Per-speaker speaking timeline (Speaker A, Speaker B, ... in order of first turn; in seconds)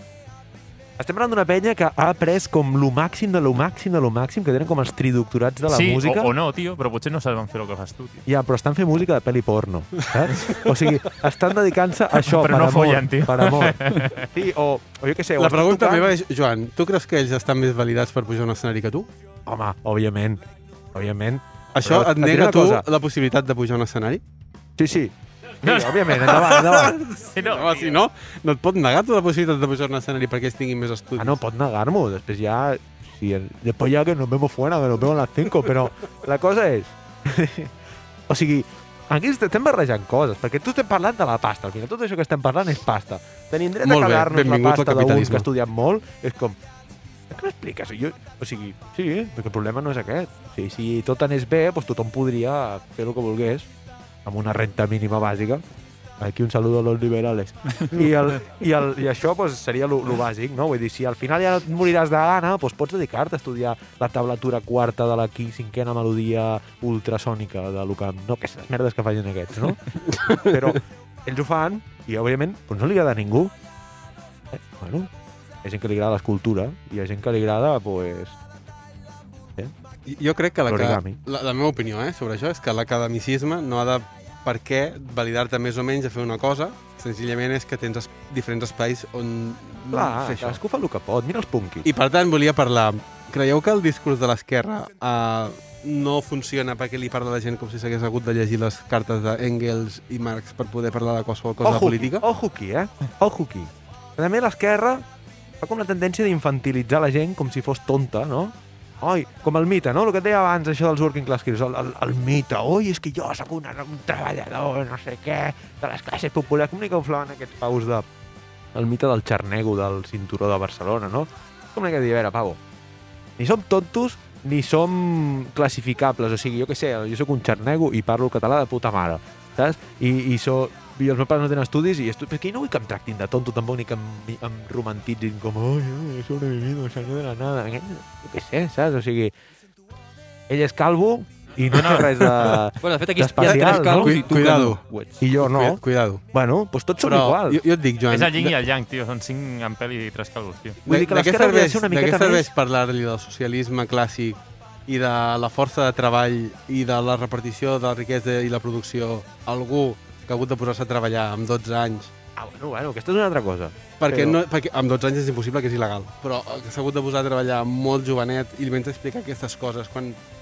Speaker A: 1.0-6.3, 8.2-16.1, 19.4-22.9, 24.8-27.0, 31.2-37.8, 38.3-46.6, 47.3-53.7, 54.2-55.6, 56.2-73.5, 74.5-75.1, 75.6-78.4, 80.7-81.2, 89.9-91.9, 101.6-105.0, 105.6-118.1, 118.7-122.6, 123.4-139.3, 140.5-144.2, 145.2-147.6, 150.8-152.5, 162.3-164.4
Speaker B: 5.7-8.2, 12.2-14.3, 25.6-26.4, 27.4-28.0, 141.7-142.6, 148.1-150.8
Speaker C: 10.2-10.7, 15.4-19.1, 21.8-24.2, 26.1-31.4, 43.8-45.5, 70.1-70.6, 80.1-90.6, 91.8-102.2, 143.4-144.8, 145.4-146.2, 147.0-148.6, 150.8-162.1, 164.0-170.2
Speaker D: 142.8-145.2